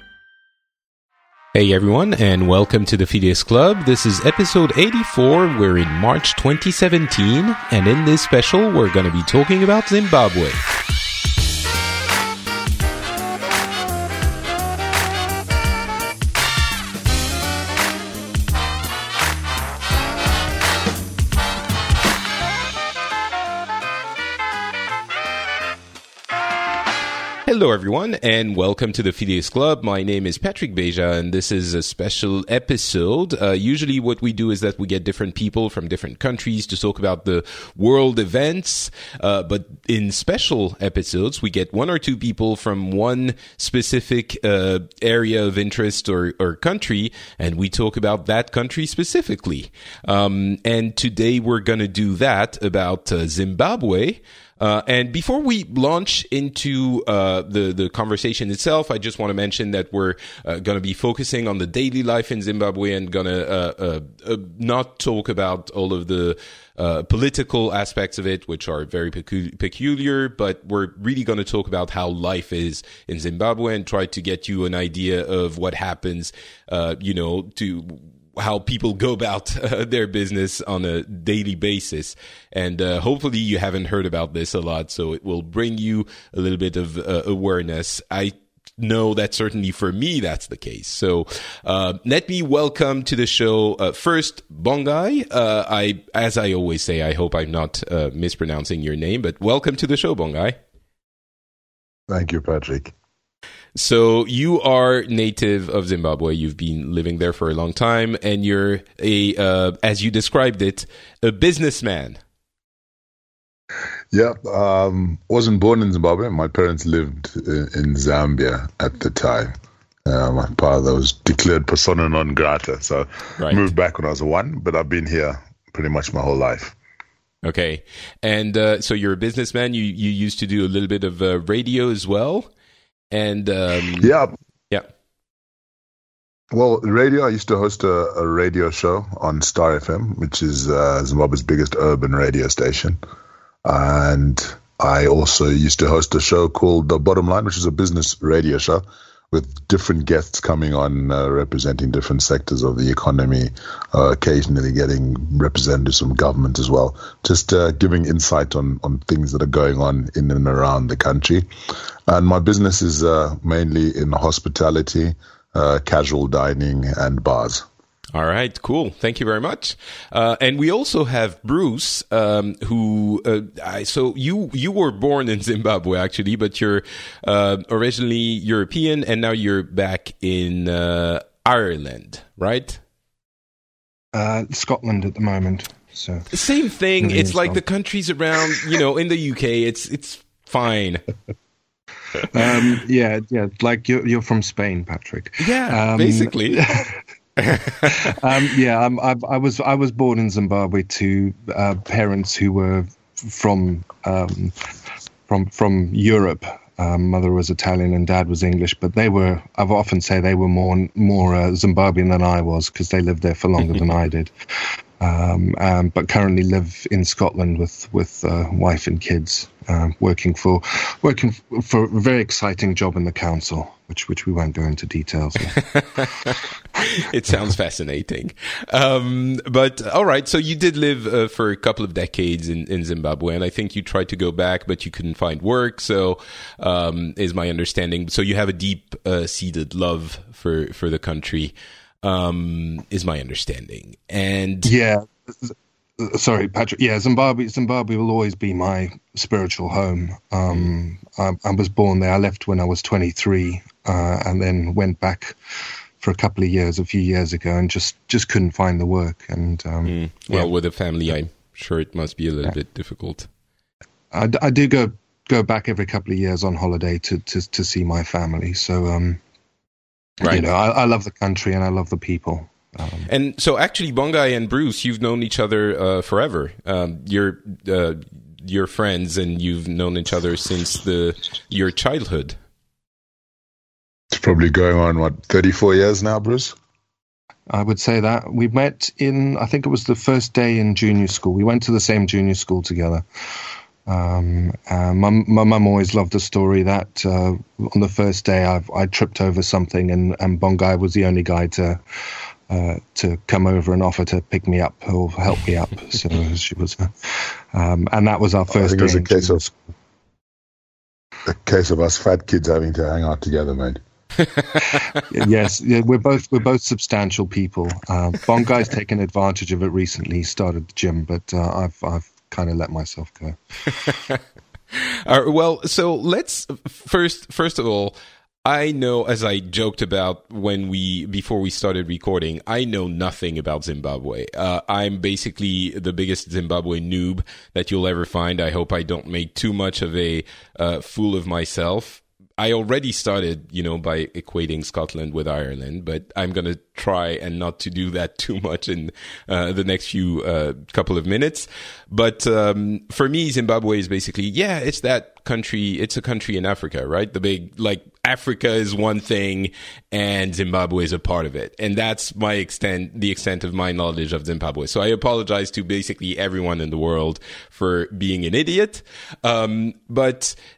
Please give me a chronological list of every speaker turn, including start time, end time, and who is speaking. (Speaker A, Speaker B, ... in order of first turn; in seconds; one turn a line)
Speaker A: 1.5-10.6
Speaker A: 27.5-100.6
Speaker B: 102.1-102.9
Speaker A: 103.8-112.2
Speaker B: 114.1-119.5
Speaker B: 120.1-126.8
Speaker A: 123.4-123.7
Speaker A: 127.4-132.5
Speaker A: 133.1-134.1
Speaker B: 134.0-134.3
Speaker B: 136.5-143.0
Speaker B: 143.7-161.5
Speaker B: 162.1-167.7
Speaker A: 168.1-182.8
Speaker C: 184.1-186.3
Speaker A: 186.3-191.0
Speaker C: 187.0-187.6
Speaker C: 192.3-197.0
Speaker A: 195.4-198.2
Speaker C: 197.7-204.6
Speaker C: 205.3-214.3
Speaker C: 215.0-225.6
Speaker A: 225.5-244.7
Speaker C: 244.7-255.4
Speaker C: 256.0-260.5
Speaker A: 259.9-263.3
Speaker C: 264.1-269.2
Speaker C: 270.2-273.1
Speaker A: 273.1-282.4
Speaker B: 284.1-286.6
Speaker C: 287.5-293.0
Speaker C: 293.9-301.8
Speaker C: 302.5-309.5
Speaker B: 308.5-309.5
Speaker B: 311.3-313.8
Speaker A: 314.2-314.8
Speaker C: 315.1-323.4
Speaker A: 323.7-324.2
Speaker A: 324.7-370.4